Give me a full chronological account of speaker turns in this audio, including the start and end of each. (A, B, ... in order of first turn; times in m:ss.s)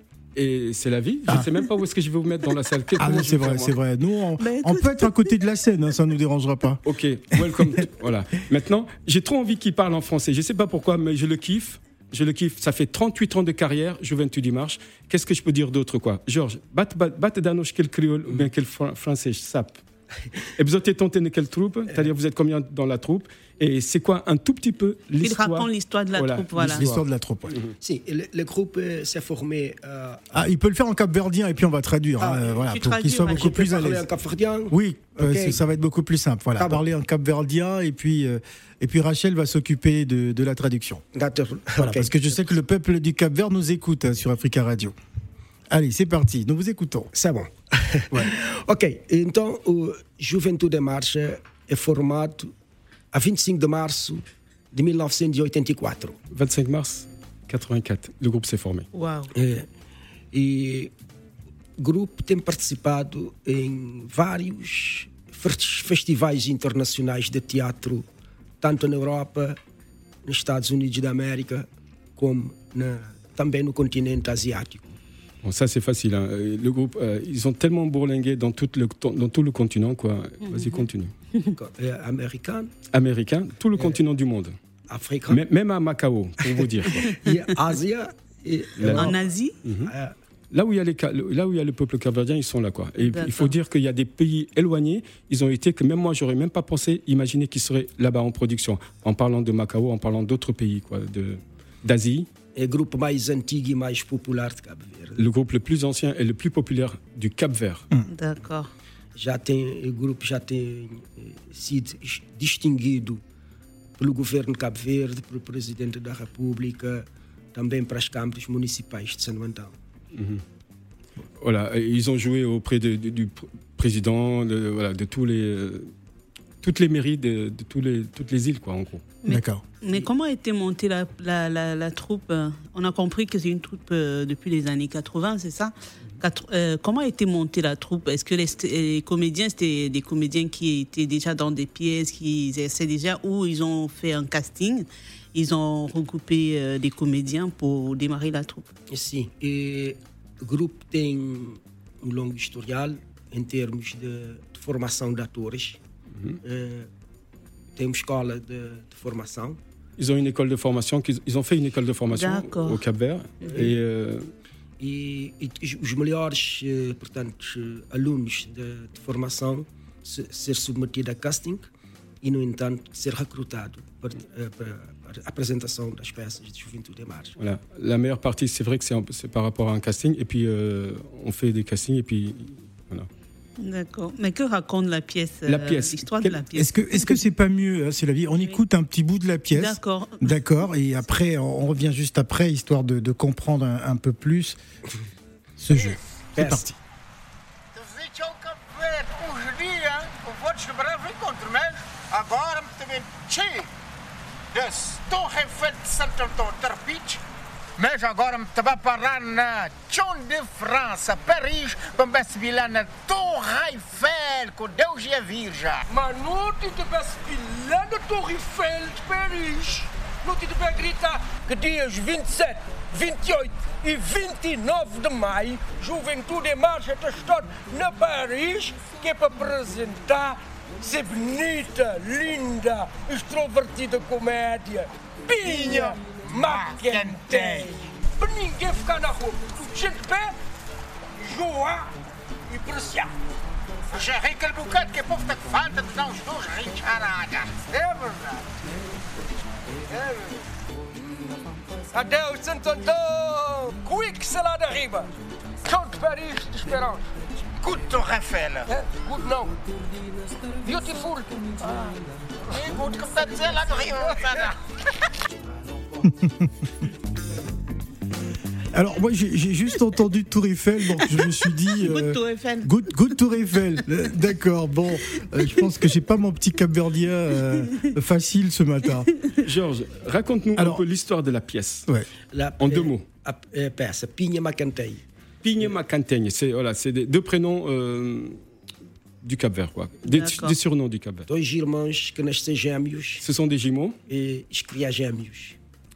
0:00.4-0:03.8 A
0:03.0-0:06.8 B
0:04.4-0:05.4 C
0:06.8-0:19.8 A
0:07.4-0:07.8 B
0:20.6-0:27.7 A
0:25.2-0:26.8 C
0:26.6-0:27.6 B
0:27.8-0:30.3 D
0:30.3-0:34.0 B
0:32.2-0:32.6 D
0:32.7-0:33.6 C
0:33.3-0:35.6 D
0:34.7-0:41.0 B
0:36.6-0:36.8 D
0:41.1-0:42.3 D
0:41.8-0:44.9 B
0:45.7-0:47.1 B
0:47.1-0:52.5 D
0:53.1-0:56.2 D
0:56.3-0:58.9 A
0:58.9-0:59.3 C
0:59.4-0:59.7 D
1:00.3-1:00.9 D
1:01.8-1:08.1 D
1:08.6-1:09.6 D
1:10.2-1:15.0 D
1:15.4-1:21.1 A
1:20.5-1:20.8 C
1:21.5-1:22.7 D
1:22.9-1:24.5 A
1:24.9-1:25.4 D
1:25.3-1:27.1 A
1:26.6-1:29.2 D
1:28.8-1:29.9 A
1:28.9-1:29.6 C
1:29.8-1:30.1 D
1:30.5-1:42.3 A
1:33.0-1:33.5 C
1:42.6-1:45.3 D
1:45.2-1:47.9 A
1:48.1-1:48.7 C
1:49.2-1:53.2 D
1:54.0-1:59.7 D
2:00.1-2:00.4 A
2:01.4-2:05.9 A
2:06.6-2:09.1 A
2:09.2-2:28.7 C
2:09.3-2:09.6 B
2:28.9-2:35.8 D
2:36.4-2:36.9 D
2:37.8-2:39.6 D
2:40.0-2:44.3 A
2:42.1-2:42.8 C
2:43.4-2:43.8 D
2:44.8-2:51.6 D
2:52.2-2:57.3 D
2:57.4-3:03.1 A
3:03.6-3:07.1 C
3:05.5-3:06.4 A
3:06.5-3:14.6 B
3:09.5-3:10.3 C
3:15.6-3:16.8 B
3:16.4-3:16.7 D
3:17.8-3:23.7 E
3:24.5-3:27.2 E
3:27.8-3:35.8 E
3:35.9-4:00.4 F
3:56.2-3:57.7 E
4:01.2-4:01.9 F
4:02.5-4:03.1 F
4:03.9-4:08.3 E
4:09.9-4:10.3 E
4:11.9-4:15.1 F
4:15.6-4:17.1 F
4:17.6-4:18.7 E
4:18.7-4:19.6 F
4:20.6-4:22.0 F
4:22.5-4:24.6 E
4:26.0-4:26.7 B
4:28.7-4:39.1 B
4:31.0-4:32.7 C
4:39.4-4:41.9 A
4:40.6-4:40.8 B
4:42.3-4:45.0 D
4:42.6-4:43.1 A
4:45.4-4:48.4 A
4:49.2-4:51.3 A
4:50.1-4:50.6 C
4:51.3-4:53.3 D
4:53.2-4:54.0 A
4:54.1-4:55.6 D